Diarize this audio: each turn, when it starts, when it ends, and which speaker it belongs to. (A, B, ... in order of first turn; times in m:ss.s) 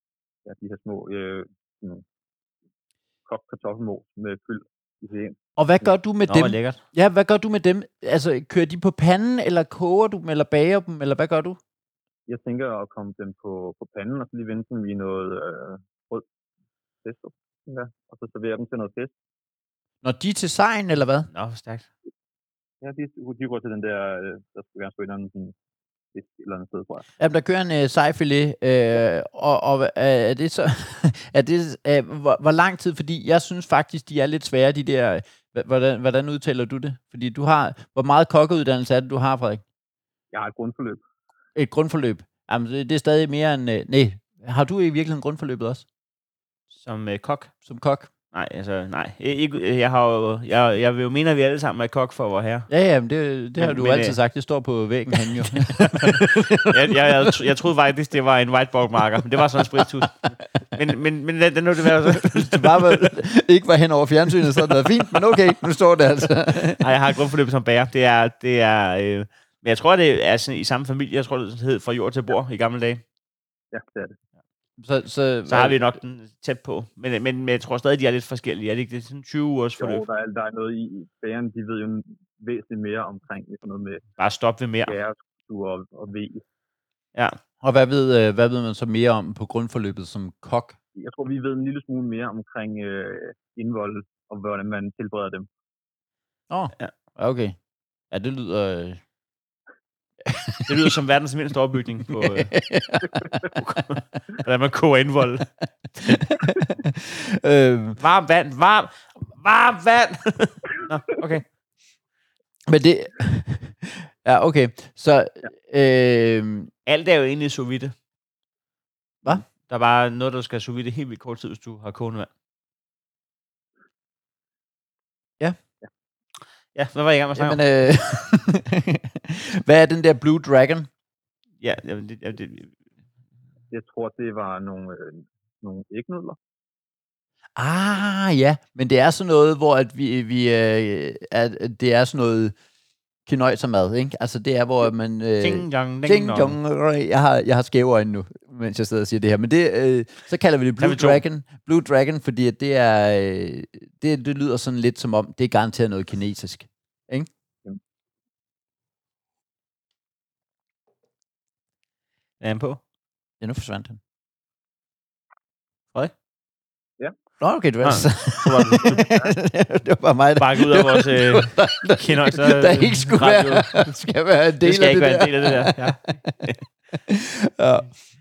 0:00.4-0:02.0 A
0:03.3-0:05.4 A
0:05.6-0:11.6 B
0:06.3-0:06.8 C
0:12.3-0:16.2 A
0:17.0-0:19.1 A
0:20.0-0:21.3 B
0:21.3-0:21.9 C
0:22.8-0:25.6 A
0:26.1-0:27.1 A
0:27.2-0:39.6 B
0:40.3-0:41.0 A
0:41.6-0:45.9 B
0:46.7-0:47.5 C
0:47.6-0:48.1 B
0:48.3-0:52.7 C
0:52.7-0:57.4 B
0:53.6-0:54.2 C
0:55.6-1:03.1 C
1:01.8-1:06.8 B
1:04.6-1:04.9 C
1:06.8-1:13.0 C
1:13.7-1:14.2 A
1:14.8-1:15.8 B
1:15.5-1:20.0 C
1:19.8-1:24.0 A
1:24.2-1:25.0 C
1:24.9-1:26.4 A
1:27.6-1:30.8 B
1:31.0-1:35.5 A
1:36.5-1:37.6 B
1:38.1-1:39.0 B
1:40.2-1:40.9 B
1:40.7-1:42.5 C
1:42.1-1:43.4 B
1:43.5-1:45.5 C
1:46.0-1:48.0 B
1:46.0-1:46.3 C
1:48.0-1:51.5 C
1:52.7-1:56.7 B
1:56.9-1:57.9 C
1:59.3-2:02.3 C
2:06.8-2:07.6 C
2:07.4-2:10.9 B
2:11.6-2:12.7 C
2:13.7-2:16.4 A
2:17.6-2:22.6 B
2:23.3-2:37.3 B
2:25.4-2:26.6 C
2:30.8-2:31.2 C
2:42.4-2:42.8 C
2:43.4-2:44.0 B
2:47.4-2:56.4 B
2:47.8-2:49.1 C
2:48.9-2:49.3 A
2:50.4-2:53.8 C
2:54.6-2:56.6 C
2:57.1-2:57.9 B